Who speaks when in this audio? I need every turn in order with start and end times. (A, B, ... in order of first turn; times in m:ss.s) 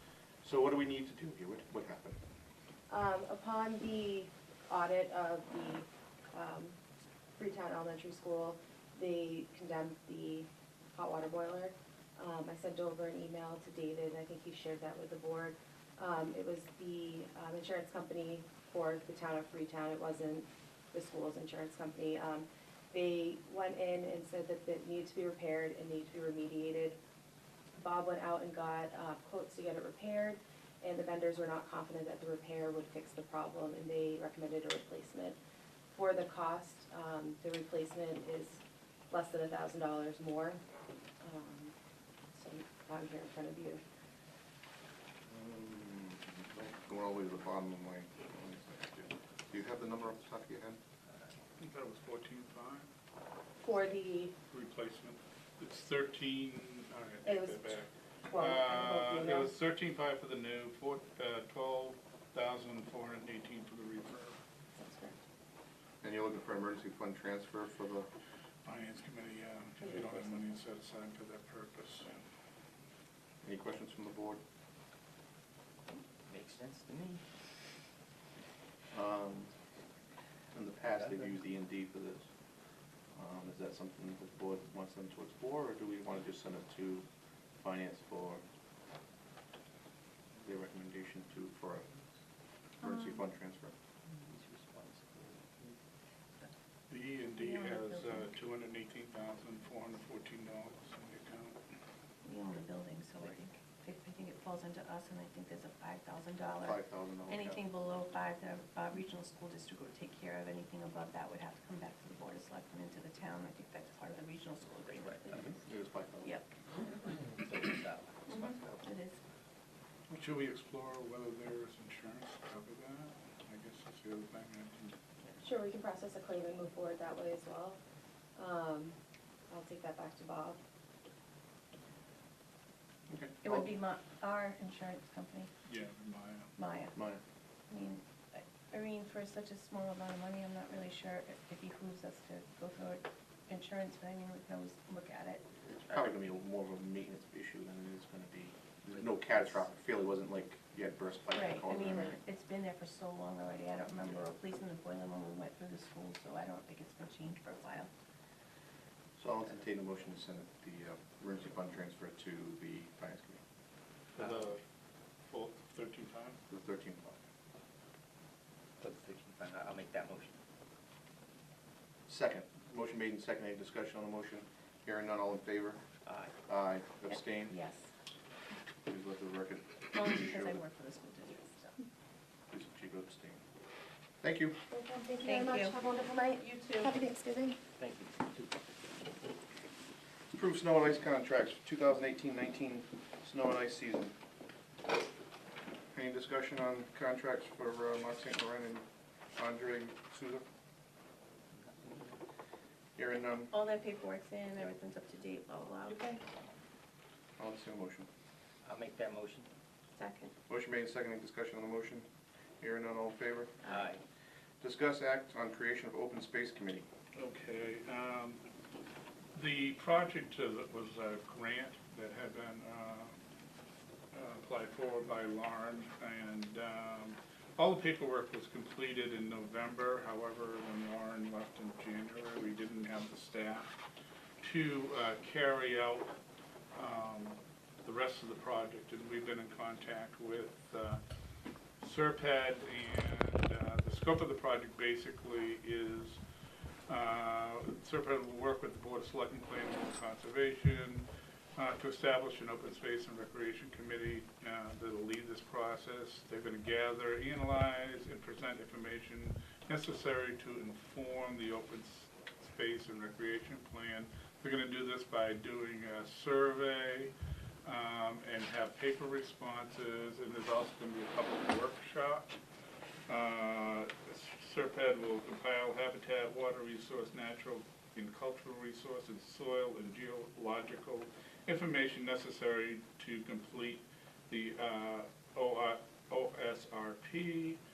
0:00.4-0:02.2 A
0:02.9-0:06.8 B
0:07.4-0:27.0 B
0:27.8-0:35.4 B
0:35.9-0:40.6 B
0:41.2-0:41.7 B
0:42.3-0:43.8 B
0:45.3-0:50.8 A
0:51.6-0:52.9 C
0:53.6-0:54.3 B
0:54.5-1:04.4 C
0:57.2-0:59.5 B
1:04.8-1:05.2 B
1:06.0-1:08.1 A
1:08.6-1:12.2 C
1:13.4-1:14.4 A
1:16.3-1:17.2 D
1:18.9-1:19.5 A
1:20.5-1:22.3 A
1:20.9-1:21.4 D
1:23.1-1:27.1 A
1:27.6-1:28.4 A
1:30.4-1:31.9 A
1:32.8-1:33.8 A
1:32.9-1:33.2 E
1:34.1-1:35.8 D
1:36.9-1:41.6 C
1:37.4-1:38.3 E
1:42.2-1:55.5 E
1:46.6-1:47.6 A
1:54.9-1:55.5 D
1:55.4-1:56.4 A
1:57.2-1:58.6 D
1:58.3-1:59.2 E
2:00.1-2:05.0 C
2:05.4-2:07.8 B
2:08.4-2:09.0 B
2:09.5-2:10.6 B
2:13.1-2:13.7 A
2:13.4-2:15.5 E
2:15.6-2:16.5 C
2:16.6-2:17.0 E
2:17.0-2:17.2 A
2:17.7-2:25.5 E
2:25.7-2:26.2 D
2:25.9-2:32.2 A
2:28.9-2:29.5 D
2:31.3-2:37.9 E
2:39.2-2:43.4 A
2:44.2-2:44.6 C
2:44.2-2:44.6 D
2:45.3-2:46.4 C
2:46.5-2:47.2 A
2:48.8-2:50.4 D
2:52.1-2:55.8 A
2:56.0-2:56.3 D
2:56.5-2:57.6 A
2:57.5-2:57.8 E
2:58.9-3:00.6 A
2:59.9-3:01.8 E
3:02.5-3:03.4 A
3:04.2-3:04.6 A
3:04.7-3:07.6 B
3:05.2-3:05.8 E
3:07.8-3:08.5 D
3:10.3-3:14.2 A
3:15.9-3:20.4 A
3:21.5-3:22.2 D
3:23.0-3:23.5 A
3:23.5-3:26.2 E
3:27.4-3:28.1 A
3:28.6-3:29.5 D
3:30.0-3:30.3 E
3:30.5-3:32.1 A
3:32.6-3:33.5 A
3:33.6-3:34.0 D
3:34.6-3:36.9 A
3:37.2-3:38.4 C
3:39.3-3:43.2 C
3:44.1-3:53.7 C
3:54.4-3:56.1 C
3:56.8-4:01.0 C
4:01.8-4:06.2 C
4:06.9-4:27.1 C
4:27.6-4:32.3 C
4:33.1-4:47.6 C